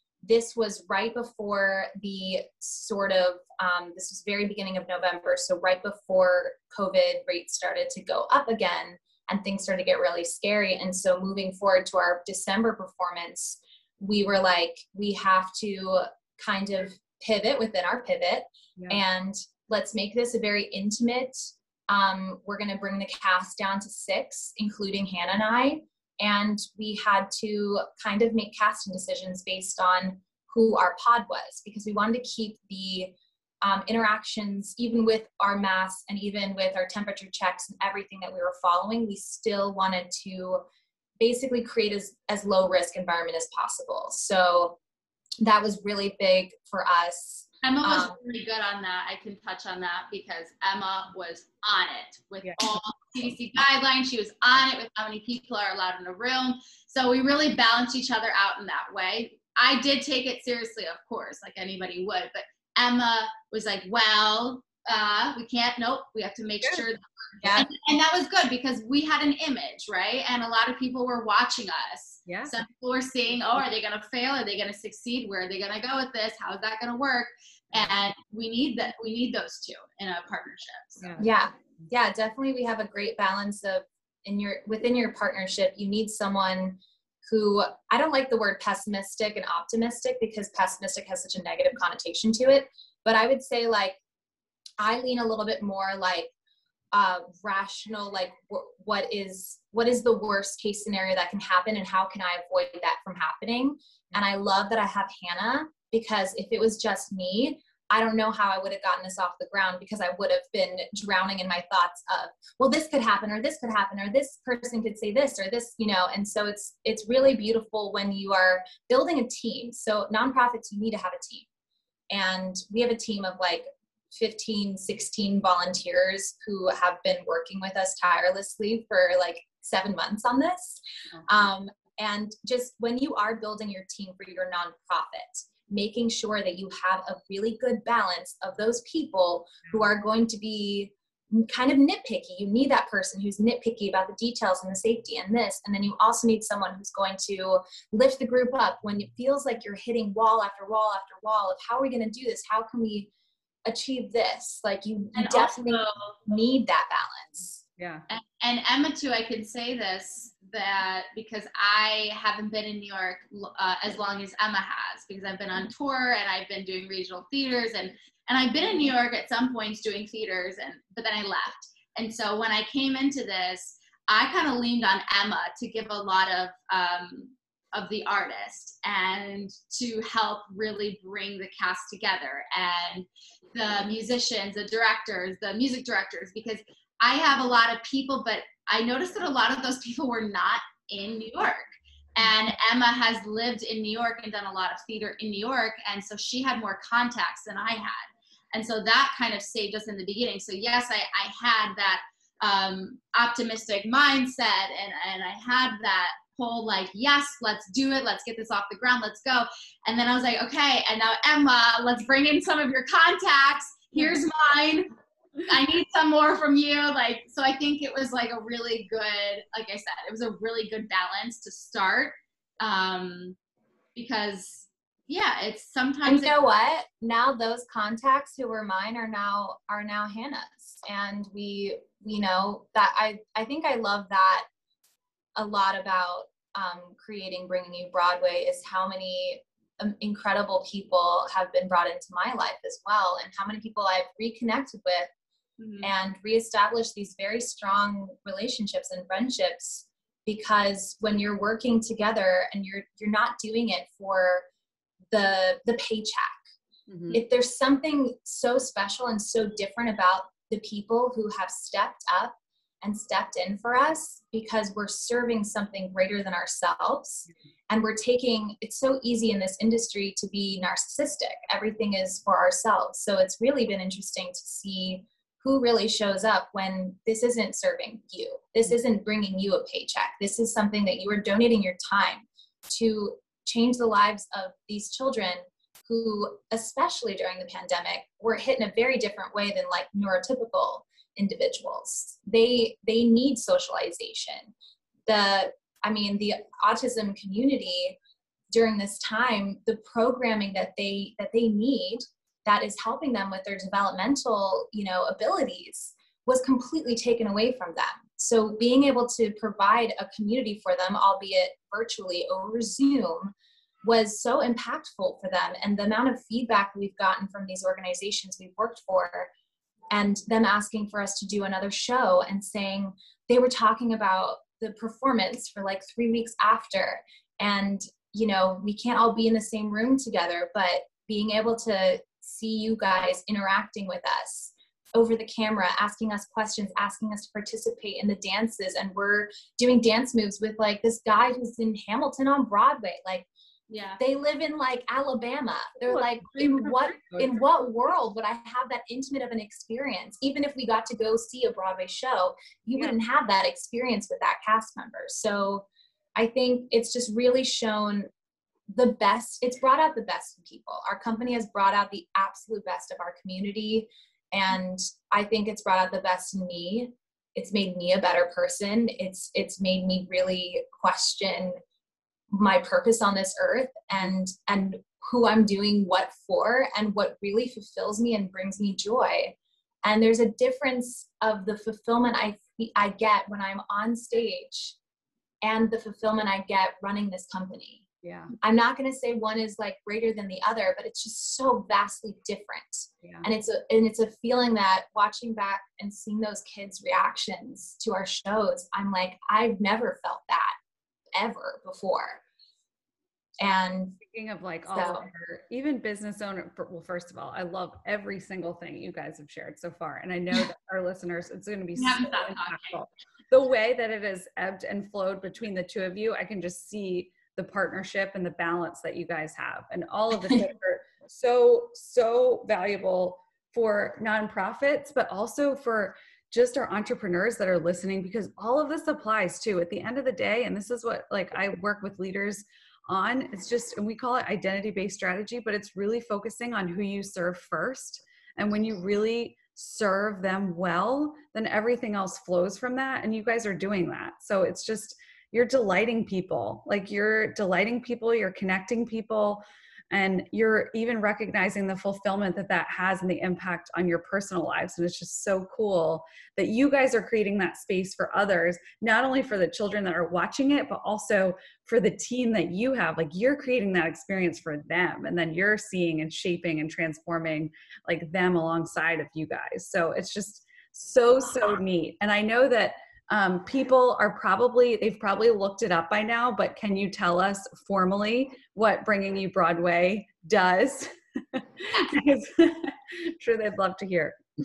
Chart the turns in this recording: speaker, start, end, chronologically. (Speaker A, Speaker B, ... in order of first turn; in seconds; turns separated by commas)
Speaker A: 0.2-40.6, Speaker A: 41.2-44.8, Speaker A: 45.4-48.2, Speaker B: 47.6-81.1, Speaker A: 67.4-67.7, Speaker C: 72.2-72.5, Speaker C: 81.0-81.3, Speaker A: 81.2-94.0, Speaker A: 94.8-96.3, Speaker A: 96.9-121.5, Speaker A: 122.1-153.1, Speaker A: 153.7-157.6, Speaker B: 155.1-156.2, Speaker C: 157.8-158.0, Speaker B: 158.1-214.9, Speaker B: 215.5-223.4, Speaker B: 223.9-226.3, Speaker A: 226.0-234.4, Speaker A: 235.3-245.1, Speaker B: 245.6-245.9, Speaker A: 245.8-254.5, Speaker A: 255.1-256.4, Speaker C: 256.9-257.2, Speaker A: 257.1-294.5, Speaker A: 295.1-298.0, Speaker A: 298.5-313.3, Speaker A: 313.9-319.3, Speaker A: 319.9-343.3, Speaker B: 343.7-344.0, Speaker A: 344.0-358.1, Speaker C: 345.9-347.4, Speaker A: 358.7-371.6, Speaker A: 372.3-384.8, Speaker A: 385.4-387.9, Speaker C: 388.0-388.3, Speaker A: 388.4-400.5, Speaker A: 401.1-402.2, Speaker A: 403.4-404.0, Speaker C: 404.0-484.2, Speaker A: 404.7-405.1, Speaker B: 411.8-412.8, Speaker B: 481.7-482.0